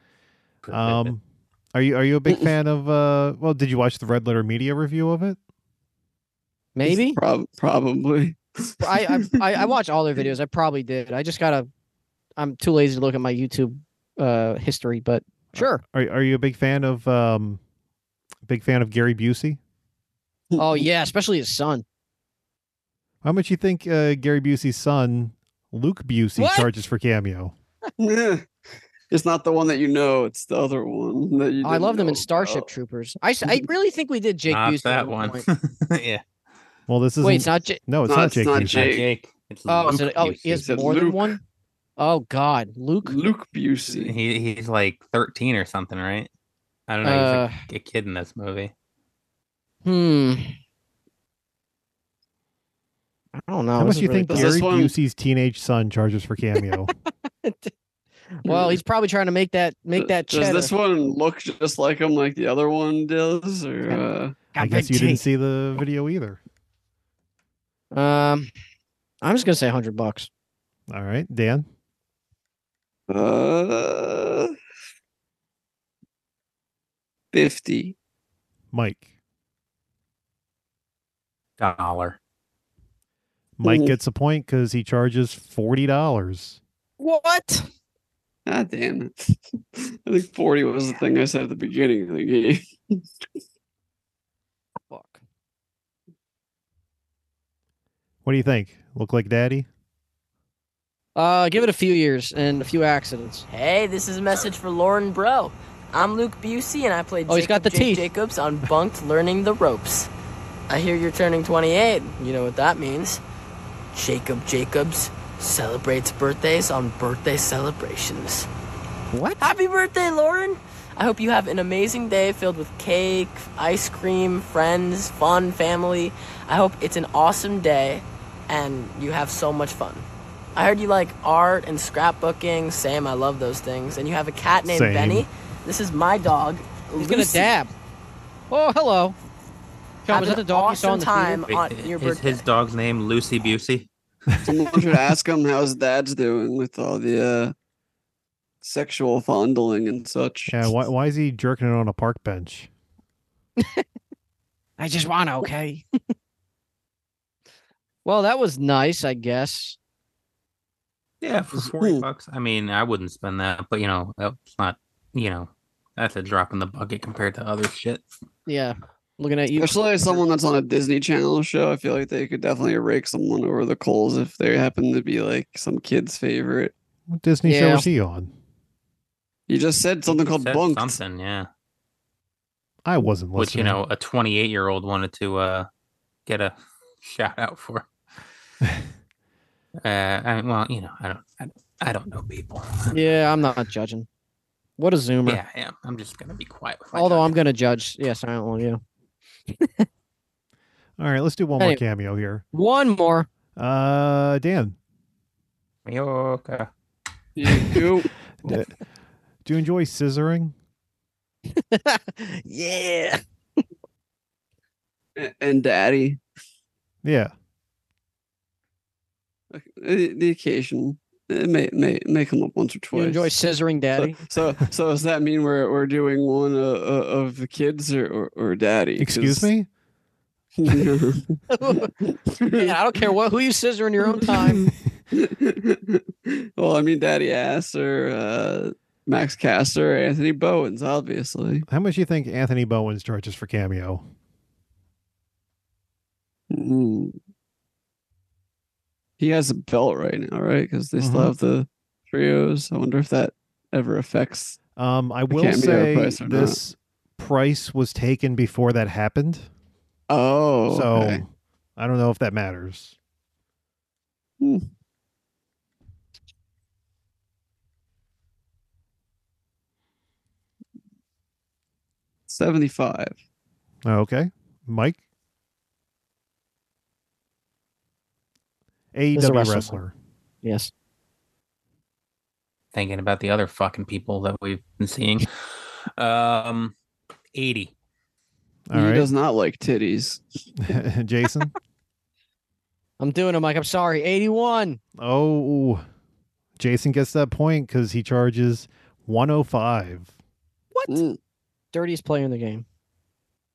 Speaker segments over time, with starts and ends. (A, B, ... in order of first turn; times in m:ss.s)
0:00.6-0:01.1 A
0:00.7-0:01.2 B
0:01.7-0:05.4 B
0:06.8-0:07.2 C
0:06.8-0:09.4 D
0:08.8-0:11.7 C
0:12.4-0:15.8 C
0:15.5-0:17.6 B
0:18.4-0:19.6 B
0:20.5-0:20.8 D
0:20.6-0:21.8 C
0:23.2-0:27.5 B
0:26.4-0:26.7 C
0:28.0-0:28.4 D
0:29.1-0:32.7 D
0:31.6-0:35.4 C
0:34.5-0:36.2 A
0:36.9-0:39.0 B
0:37.2-0:37.8 C
0:38.0-0:39.0 D
0:38.6-0:40.6 A
0:39.7-0:41.4 C
0:40.5-0:41.4 D
0:42.0-0:43.2 C
0:43.0-0:44.1 D
0:43.9-0:46.3 A
0:46.9-0:48.7 A
0:47.0-0:47.6 C
0:49.8-0:50.5 C
0:53.4-0:54.5 C
0:53.8-0:56.9 B
0:54.3-0:54.9 D
0:57.4-0:57.7 C
0:58.4-1:00.7 C
0:58.4-0:58.8 D
1:00.0-1:04.4 D
1:03.9-1:05.2 C
1:04.6-1:06.4 B
1:07.9-1:08.5 C
1:09.2-1:10.3 C
1:10.9-1:11.6 B
1:13.1-1:14.5 D
1:17.3-1:17.9 D
1:18.7-1:19.0 B
1:21.6-1:22.2 A
1:23.6-1:26.6 B
1:23.6-1:23.9 D
1:27.0-1:27.7 C
1:28.4-1:33.1 D
1:34.9-1:35.2 C
1:38.2-1:39.7 B
1:41.2-1:43.5 C
1:43.5-1:50.1 E
1:47.3-1:48.1 C
1:50.7-1:53.2 E
1:53.9-1:58.5 E
1:59.1-1:59.5 C
1:59.4-2:17.5 E
2:14.6-2:15.2 B
2:17.0-2:17.7 C
2:18.5-2:19.2 C
2:20.0-2:21.4 C
2:20.1-2:22.4 E
2:21.5-2:23.9 A
2:24.4-2:27.5 D
2:28.6-2:30.7 D
2:30.5-2:32.7 B
2:34.8-2:35.8 C
2:38.0-2:39.8 C
2:41.2-2:48.1 A
2:41.5-2:42.0 D
2:48.5-2:50.2 C
2:49.6-2:56.7 D
2:57.1-2:58.3 B
2:57.4-2:57.9 C
2:59.5-3:01.0 D
3:00.1-3:01.5 A
3:02.8-3:03.8 B
3:03.4-3:05.7 A
3:06.2-3:07.9 A
3:09.8-3:13.2 A
3:12.9-3:14.0 C
3:14.8-3:15.4 C
3:15.2-3:17.4 A
3:16.9-3:18.8 C
3:19.5-3:19.8 C
3:21.0-3:22.4 B
3:22.5-3:23.3 C
3:23.6-3:24.8 B
3:25.8-3:26.7 A
3:27.4-3:28.1 D
3:28.4-3:28.7 B
3:29.4-3:30.5 B
3:31.6-3:33.2 C
3:35.2-3:36.2 D
3:37.0-3:37.3 B
3:39.5-3:43.3 D
3:42.9-3:44.2 C
3:44.0-3:49.5 D
3:49.0-3:49.7 B
3:50.6-3:51.4 D
3:51.5-3:51.9 C
3:52.0-3:52.8 D
3:52.5-3:54.6 C
3:54.2-4:01.6 D
4:01.7-4:04.0 B
4:06.5-4:07.2 D
4:09.2-4:14.6 D
4:11.0-4:11.3 B
4:14.8-4:19.5 B
4:15.3-4:16.6 D
4:20.1-4:21.2 D
4:20.7-4:22.9 B
4:24.4-4:24.6 D
4:32.3-4:33.1 D
4:33.8-4:35.0 B
4:38.9-4:39.9 B
4:39.1-4:39.8 C
4:40.4-4:40.7 C
4:42.7-4:45.3 A
4:46.0-4:46.7 A
4:47.3-4:47.7 A
4:48.7-4:49.1 B
4:48.7-4:50.2 D
4:50.6-4:51.5 B
4:53.0-4:54.8 C
4:55.0-4:55.8 B
4:56.6-5:00.1 B
5:00.7-5:01.0 C
5:00.9-5:01.2 D
5:01.7-5:02.6 C